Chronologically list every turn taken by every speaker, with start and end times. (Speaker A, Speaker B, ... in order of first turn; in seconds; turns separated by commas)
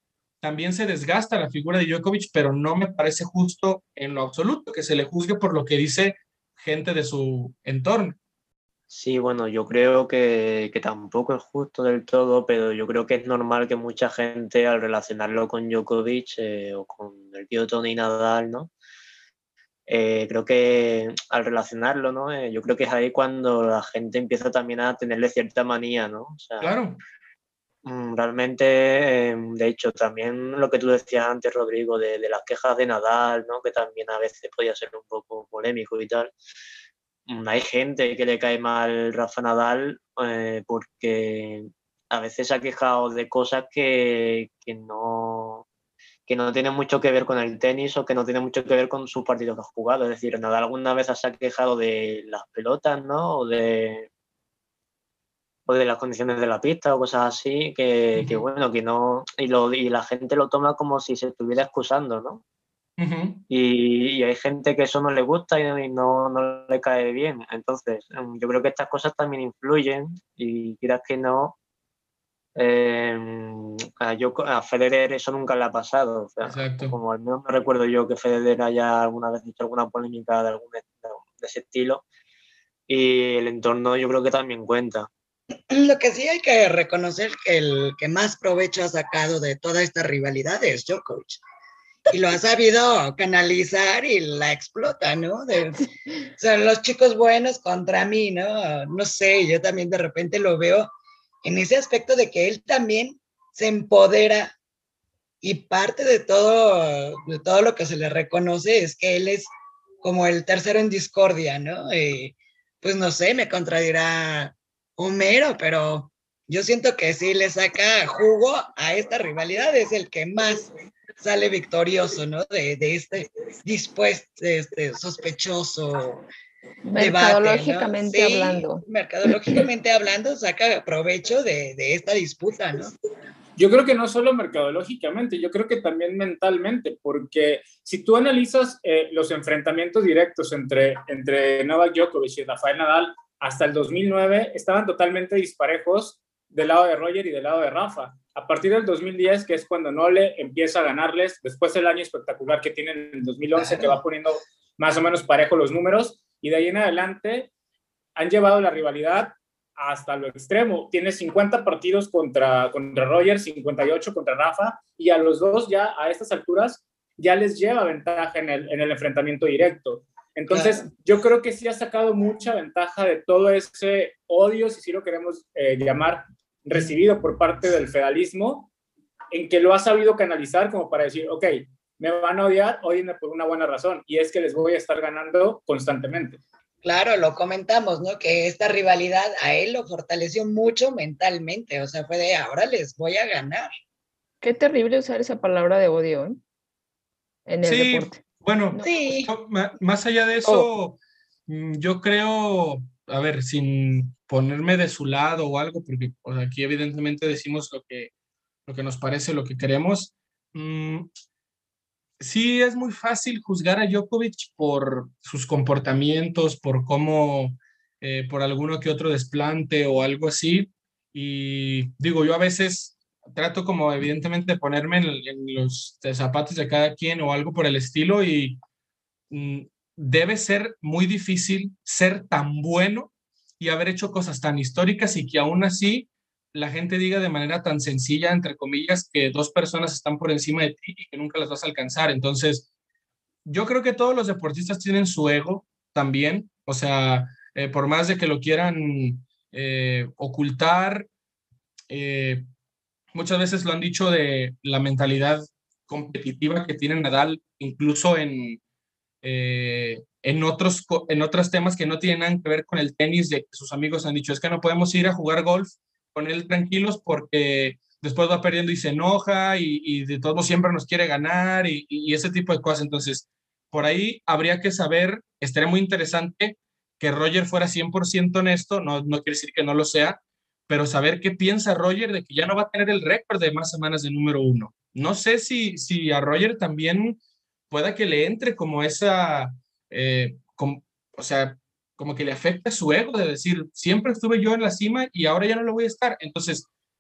Speaker A: 0.4-8.2, Speaker B: 8.9-18.7, Speaker B: 19.9-26.8, Speaker A: 26.6-27.0, Speaker B: 27.9-36.3, Speaker B: 37.3-45.6, Speaker B: 46.3-54.1, Speaker B: 55.7-62.4, Speaker A: 58.2-58.5, Speaker A: 63.0-63.4, Speaker B: 63.5-71.6, Speaker B: 72.6-82.0, Speaker A: 76.4-77.0, Speaker B: 82.9-85.1, Speaker C: 85.7-91.4, Speaker C: 92.1-100.9, Speaker C: 101.5-104.5, Speaker C: 105.4-109.5, Speaker C: 110.0-126.2, Speaker D: 126.9-128.8, Speaker C: 127.0-132.9, Speaker E: 133.6-157.5, Speaker E: 158.2-178.7, Speaker C: 170.5-170.9, Speaker E: 179.3-186.4, Speaker C: 186.8-193.7, Speaker D: 194.4-196.4, Speaker D: 197.5-198.2, Speaker A: 197.6-208.1, Speaker C: 198.8-199.3, Speaker A: 208.7-211.1, Speaker A: 212.2-228.6, Speaker A: 229.3-242.7, Speaker A: 243.5-251.1, Speaker A: 251.9-252.4, Speaker A: 253.1-258.6, Speaker A: 259.2-296.7